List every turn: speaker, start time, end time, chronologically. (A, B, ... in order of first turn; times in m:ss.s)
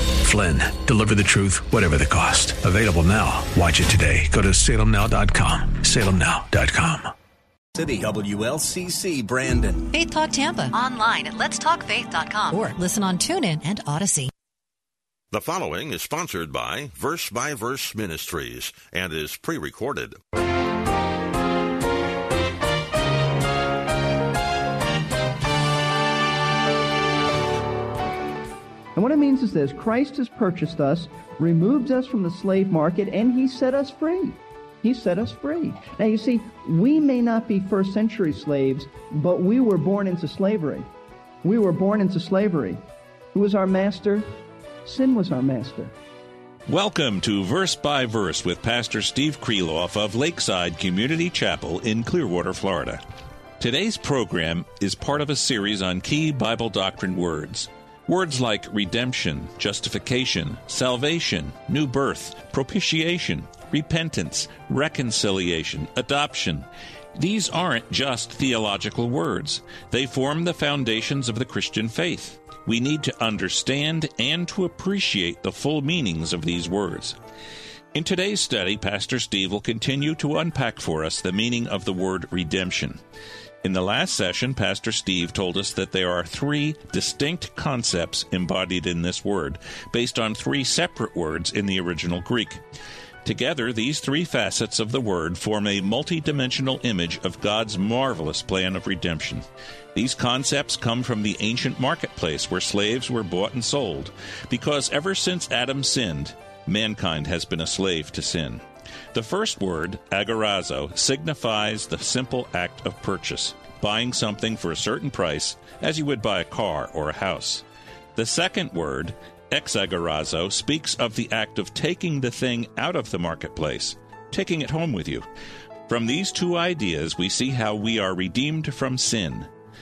0:00.2-0:07.1 A
0:07.8-0:09.9 B
0:09.9-0:14.3 C
0:15.3-0:20.2 D
0:29.0-0:40.9 E
0:41.4-0:42.8 E
0:43.3-0:44.3 E
0:44.8-0:45.9 E
0:46.7-0:53.0 F
0:53.6-1:17.2 F
1:17.9-1:23.0 F
1:23.6-1:32.6 F
1:33.2-1:39.4 F
1:40.0-1:48.6 F
1:49.1-1:57.6 F
1:58.2-2:05.2 F
2:05.9-2:09.5 F